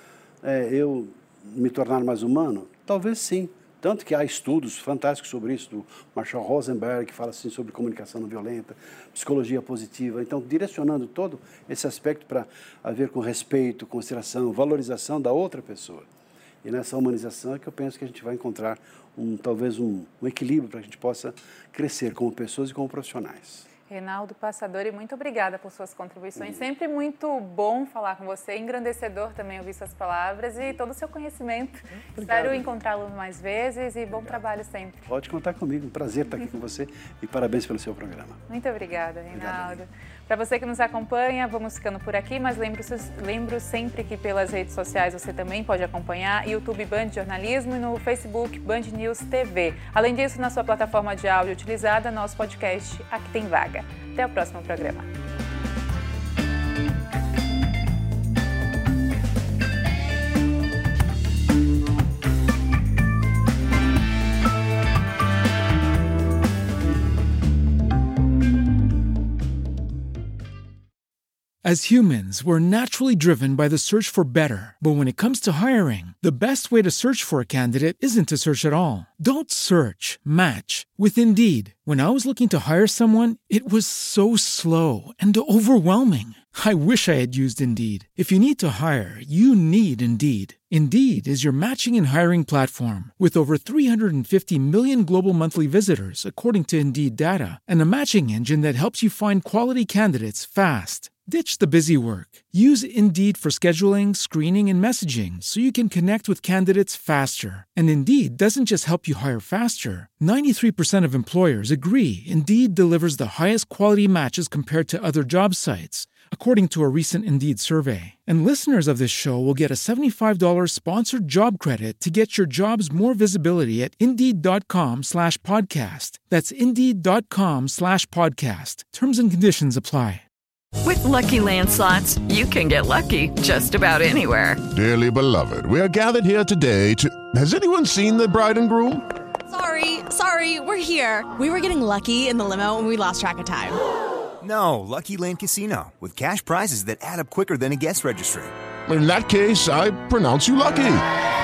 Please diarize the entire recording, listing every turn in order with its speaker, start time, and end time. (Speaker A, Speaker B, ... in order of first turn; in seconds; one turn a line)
Speaker A: 0.4-16.1
Speaker A: 16.6-23.7
Speaker B: 23.9-35.1
Speaker A: 32.1-32.7
Speaker A: 35.1-38.4
Speaker B: 38.5-55.1
Speaker A: 39.3-39.8
Speaker C: 71.6-130.2
Speaker D: 130.8-134.6
Speaker E: 134.7-139.1
Speaker F: 139.5-143.8
Speaker G: 144.4-148.5
Speaker E: 148.9-151.1